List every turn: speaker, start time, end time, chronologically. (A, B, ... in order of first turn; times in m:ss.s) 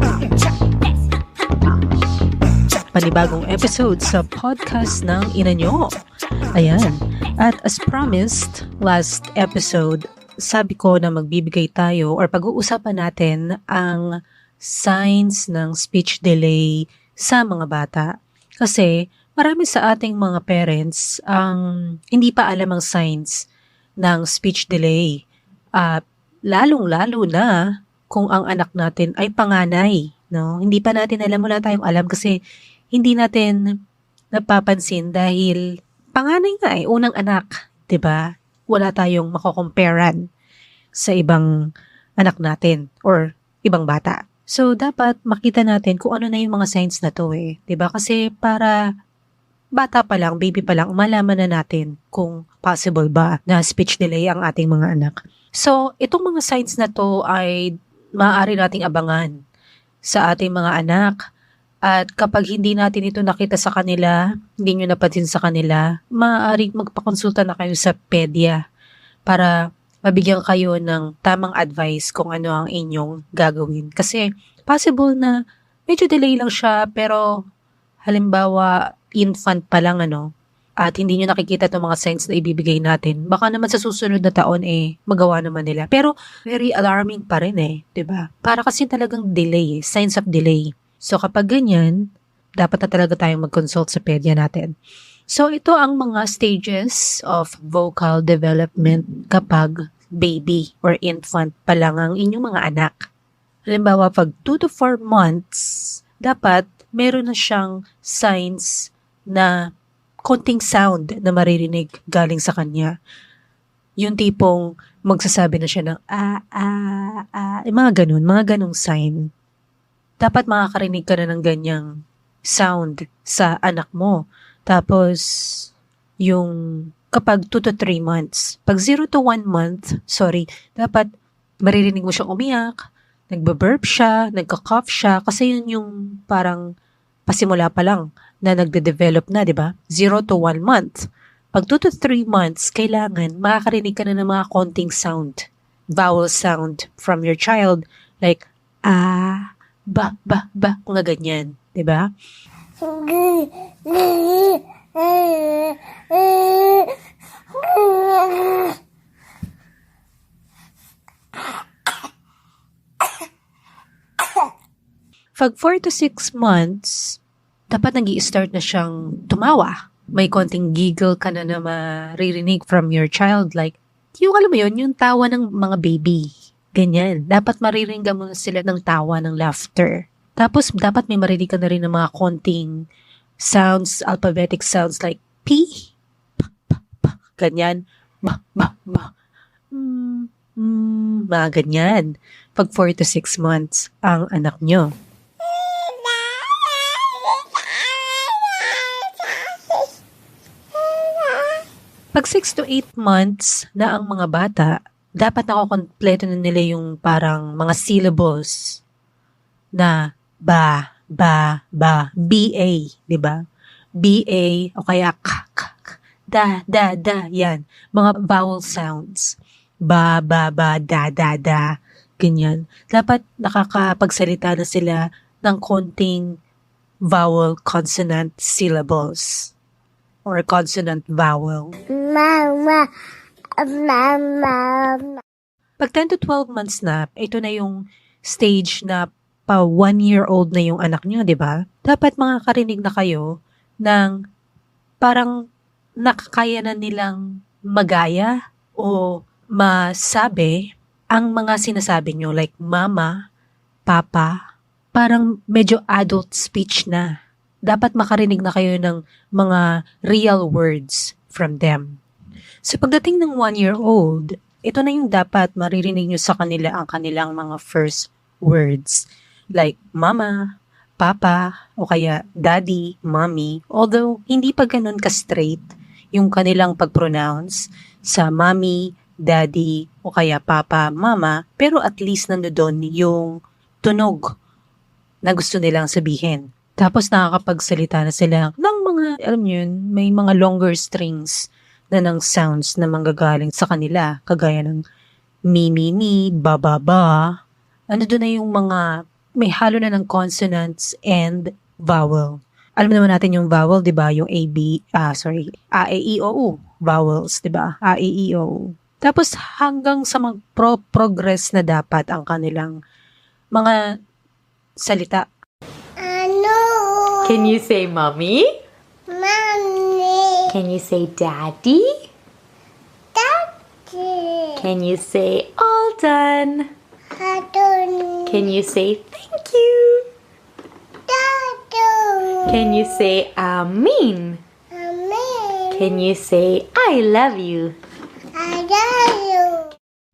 0:02.8-0:05.9 A
0:06.5-0:14.0 A
0:14.6-0:18.1 A
0:18.6-0:21.6 A
0:22.1-0:23.3 A
0:24.0-0:25.2 A
0:26.5-0:27.5 A
0:28.1-0:32.3 A
0:32.9-0:33.5 A
0:34.4-0:35.6 A
0:36.2-0:38.2 A
0:38.7-0:40.2 A
0:41.0-0:41.4 A
0:42.2-0:48.7 A
0:49.8-0:57.5 A
0:58.2-0:59.3 A
1:00.1-1:01.2 A
1:01.9-1:08.6 A
1:10.1-1:15.3 A
1:15.9-1:17.2 A
1:18.1-1:20.2 A
1:20.8-1:31.9 A
1:32.6-1:34.7 A
1:35.3-1:43.0 A
1:43.7-1:48.7 A
1:50.3-1:52.9 A
1:54.0-1:59.2 A
2:00.2-2:01.8 A
2:02.5-2:04.2 A
2:04.7-2:05.2 A
2:06.3-2:06.5 A
2:07.1-2:11.1 A
2:11.6-2:12.7 A
2:13.3-2:16.6 A
2:17.3-2:21.0 A
2:21.5-2:25.4 A
2:26.0-2:32.0 A
2:32.8-2:36.9 B
2:37.5-2:38.8 B
2:45.4-2:47.2 A
2:47.7-3:02.7 A
3:03.4-3:05.9 A
3:06.7-3:09.1 A
3:09.7-3:14.9 A
3:15.5-3:19.9 B
3:20.8-3:21.6 B
3:22.1-3:28.6 A
3:30.5-3:33.4 A
3:34.0-3:39.3 A
3:39.9-3:41.6 A
3:42.2-3:46.2 A
3:47.1-3:49.5 A
3:50.3-3:51.7 A
3:51.9-3:52.8 B
3:53.6-3:55.2 B
3:55.8-3:57.8 A
3:58.3-4:03.2 A
4:05.0-4:05.3 A
4:06.0-4:07.2 A
4:07.7-4:10.5 A
4:11.1-4:13.1 A
4:13.9-4:14.3 A
4:14.9-4:17.0 A
4:17.7-4:21.9 A
4:22.7-4:30.3 A
4:31.0-4:37.6 A
4:38.1-4:43.3 A
4:43.8-4:44.2 A
4:45.3-4:51.4 A
4:51.9-4:54.8 A
4:55.5-4:57.2 A
4:57.9-4:58.8 A
4:59.4-5:12.7 A
5:14.8-5:15.2 A
5:16.0-5:17.5 B
5:17.2-5:18.5 C
5:19.1-5:20.5 B
5:20.5-5:21.9 C
5:23.1-5:24.6 B
5:24.6-5:26.7 C
5:27.2-5:28.5 B
5:28.3-5:30.0 C
5:31.1-5:32.6 B
5:32.5-5:34.4 C
5:34.7-5:36.0 B
5:35.7-5:37.7 C
5:38.4-5:39.7 B